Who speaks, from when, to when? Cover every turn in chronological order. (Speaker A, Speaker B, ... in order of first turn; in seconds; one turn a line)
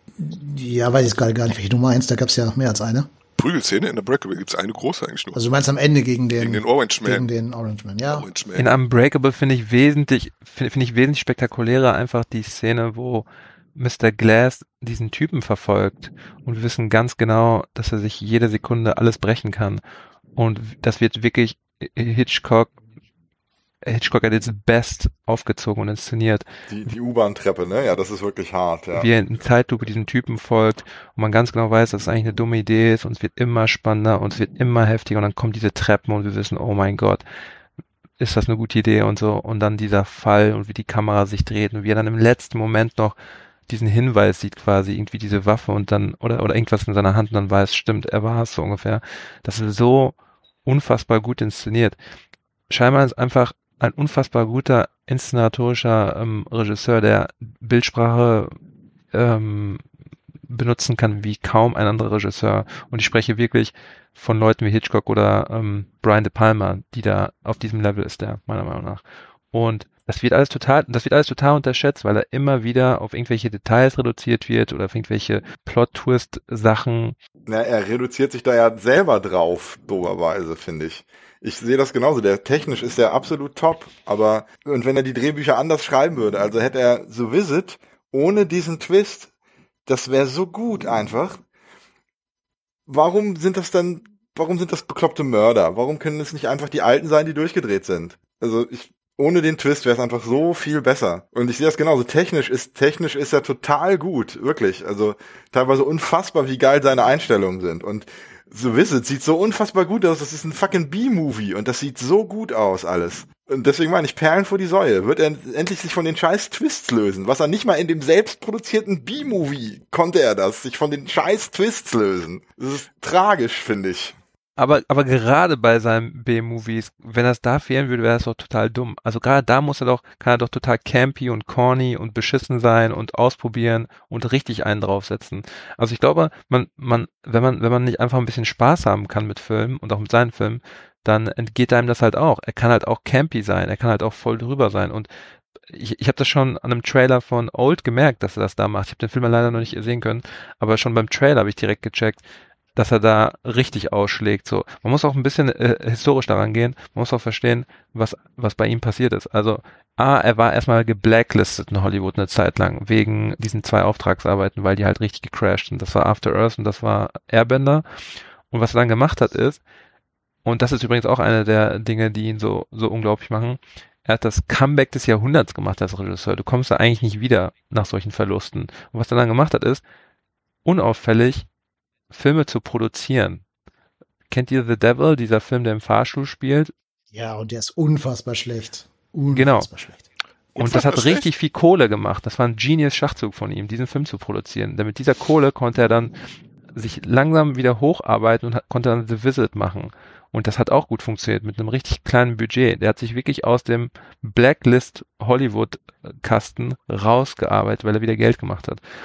Speaker A: 0.2-3.1
Speaker B: 3.4-5.4
Speaker A: 5.3-8.3
Speaker B: 6.4-7.3
Speaker B: 8.1-8.7
Speaker C: 8.6-19.8
Speaker C: 20.4-22.8
Speaker C: 23.8-26.5
Speaker D: 26.7-29.1
Speaker C: 28.9-37.2
Speaker C: 38.2-43.2
Speaker C: 43.7-52.0
Speaker C: 52.7-58.5
Speaker C: 59.1-59.8
Speaker C: 60.5-77.2
Speaker D: 77.5-89.3
Speaker D: 89.9-91.4
Speaker D: 92.9-124.2
Speaker C: 124.6-145.1
Speaker C: 145.7-152.2
Speaker C: 152.8-167.8
Speaker C: 168.5-169.6
Speaker C: 170.4-179.8
Speaker C: 180.7-181.5
Speaker C: 182.1-183.4
Speaker C: 184.3-186.7
Speaker A: 187.1-190.0
Speaker C: 189.3-189.7
Speaker B: 190.6-191.3
Speaker C: 190.6-196.2
Speaker C: 196.7-208.8